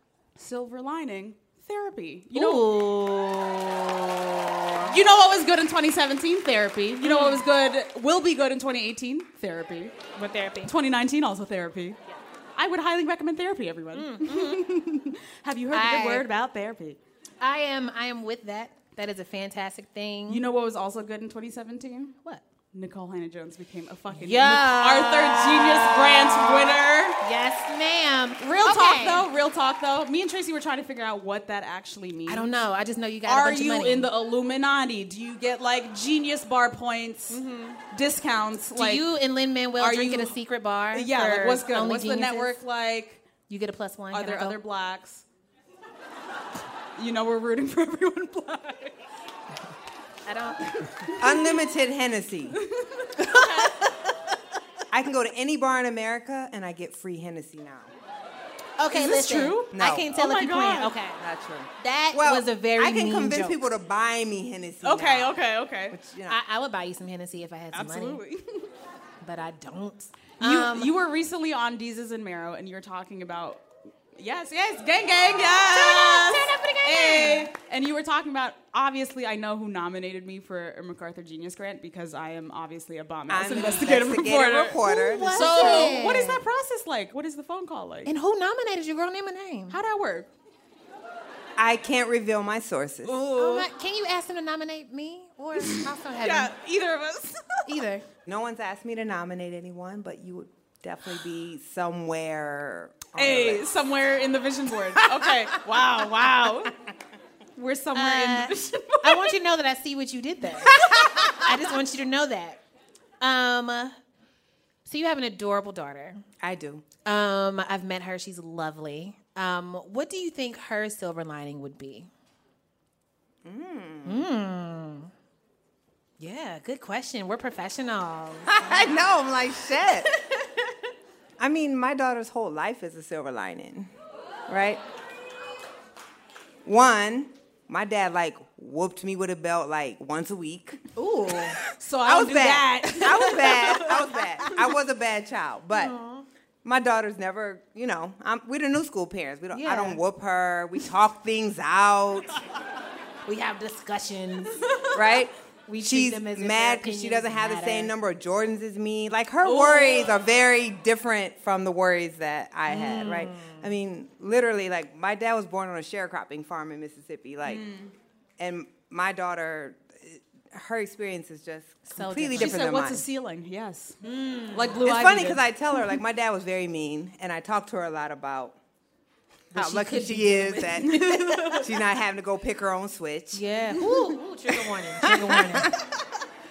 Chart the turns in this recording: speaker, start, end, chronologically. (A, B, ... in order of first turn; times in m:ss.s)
0:00.4-0:02.7 A
0:02.3-0:05.0 B
0:04.8-0:10.0 A
0:07.0-0:07.5 B
0:10.1-0:10.7 B
0:10.6-0:12.0 A
0:12.6-0:17.0 A
0:13.9-0:14.7 B
0:15.7-0:16.3 B
0:17.4-0:20.4 B
0:20.3-0:22.2 A
0:22.7-0:27.2 A
0:24.1-0:29.3 B
0:28.4-0:32.5 A
0:32.3-0:34.1 B
0:33.2-0:39.1 A
0:37.3-0:37.8 B
0:38.8-0:42.6 B
0:39.8-0:40.4 A
0:40.9-0:43.2 A
0:43.5-0:44.6 B
0:44.1-0:45.2 A
0:47.0-0:49.0 A
0:50.2-0:50.8 B
0:50.7-0:51.6 A
0:51.2-0:52.6 C
0:52.6-0:53.8 A
0:53.2-0:53.7 B
0:54.9-0:57.9 C
0:58.8-1:01.2 B
0:58.9-1:01.0 A
0:59.7-1:00.1 C
1:01.2-1:05.4 C
1:01.8-1:03.6 B
1:04.8-1:06.0 A
1:05.9-1:06.4 C
1:06.3-1:08.2 B
1:07.7-1:08.7 A
1:09.2-1:10.9 B
1:10.4-1:28.1 A
1:15.7-1:17.5 B
1:23.3-1:26.0 C
1:24.8-1:26.4 B
1:28.0-1:29.8 B
1:29.7-1:30.3 A
1:31.6-1:33.2 C
1:33.1-1:36.5 B
1:33.1-1:33.7 A
1:35.6-1:37.7 A
1:37.7-1:38.1 B
1:38.3-1:43.7 C
1:43.2-1:46.7 A
1:47.6-1:49.4 A
1:47.9-1:52.6 B
1:50.8-1:51.3 C
1:53.2-1:54.0 B
1:54.8-1:56.2 B
1:56.4-1:56.9 C
1:57.0-2:02.1 B
2:03.4-2:04.3 C
2:04.0-2:05.1 B
2:06.2-2:09.1 B
2:08.5-2:10.1 C
2:11.4-2:13.9 C
2:14.5-2:14.8 C
2:16.6-2:20.9 C
2:21.0-2:21.6 B
2:21.7-2:24.5 A
2:22.0-2:26.0 C
2:25.7-2:26.3 B
2:26.6-2:32.4 C
2:29.5-2:30.0 B
2:33.2-2:34.6 B
2:34.6-2:34.9 A
2:34.9-2:47.7 C
2:35.7-2:37.9 B
2:39.4-2:40.1 A
2:42.7-2:43.8 B
2:47.4-2:47.9 A
2:48.4-2:53.0 C
2:51.9-2:52.7 B
2:52.4-2:54.0 A
2:54.0-2:54.8 B
2:54.5-2:55.5 A
2:54.8-2:58.6 C
2:59.5-3:03.4 C
2:59.5-3:01.1 B
3:00.8-3:01.7 A
3:03.3-3:05.7 B
3:05.4-3:05.8 C